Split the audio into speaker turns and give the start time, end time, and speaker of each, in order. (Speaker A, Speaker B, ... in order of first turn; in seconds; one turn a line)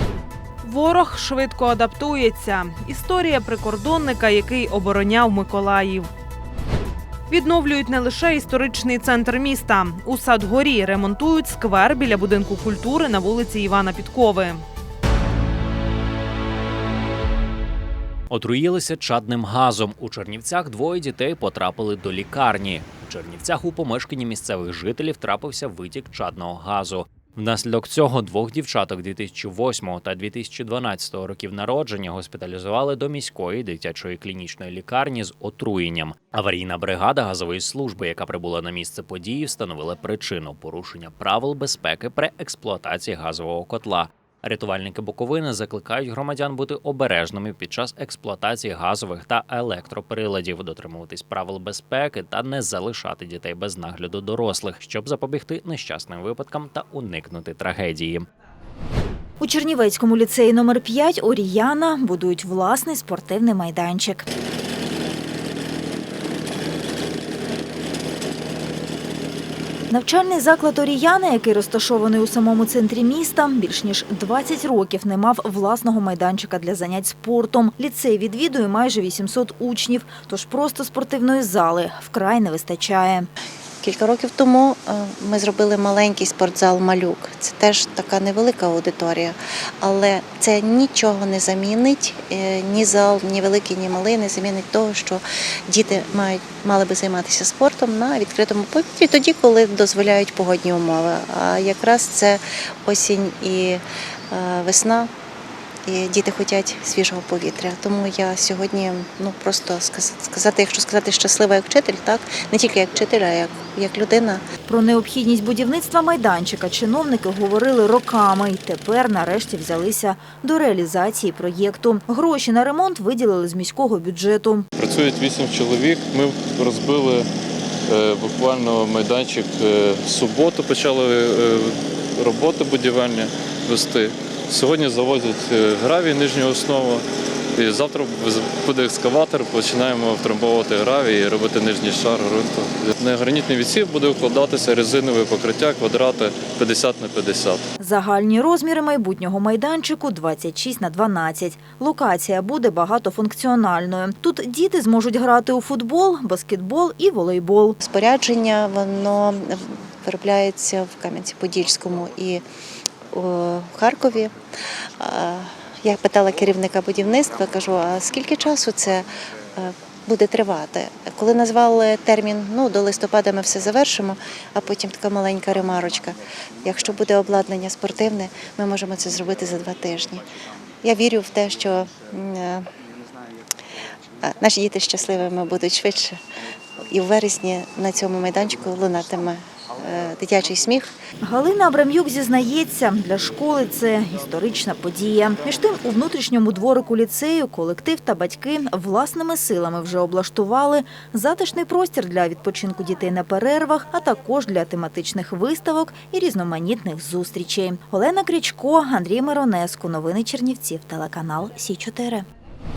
Speaker A: 0.6-6.1
Speaker A: 7.3-14.6
Speaker B: 18.3-58.3
Speaker C: 59.4-64.3
Speaker C: 69.9-83.3
Speaker D: 83.8-105.1
Speaker D: 105.9-114.4
Speaker C: 114.7-124.7
Speaker E: 124.8-127.2
Speaker E: 127.9-137.0
Speaker E: 137.6-147.6
Speaker C: 147.8-157.8
Speaker D: 157.8-162.4
Speaker D: 163.1-164.3
Speaker D: 165.0-180.2
Speaker D: 180.8-182.7
Speaker D: 184.2-186.2
Speaker D: 186.9-190.9
Speaker C: 191.2-212.2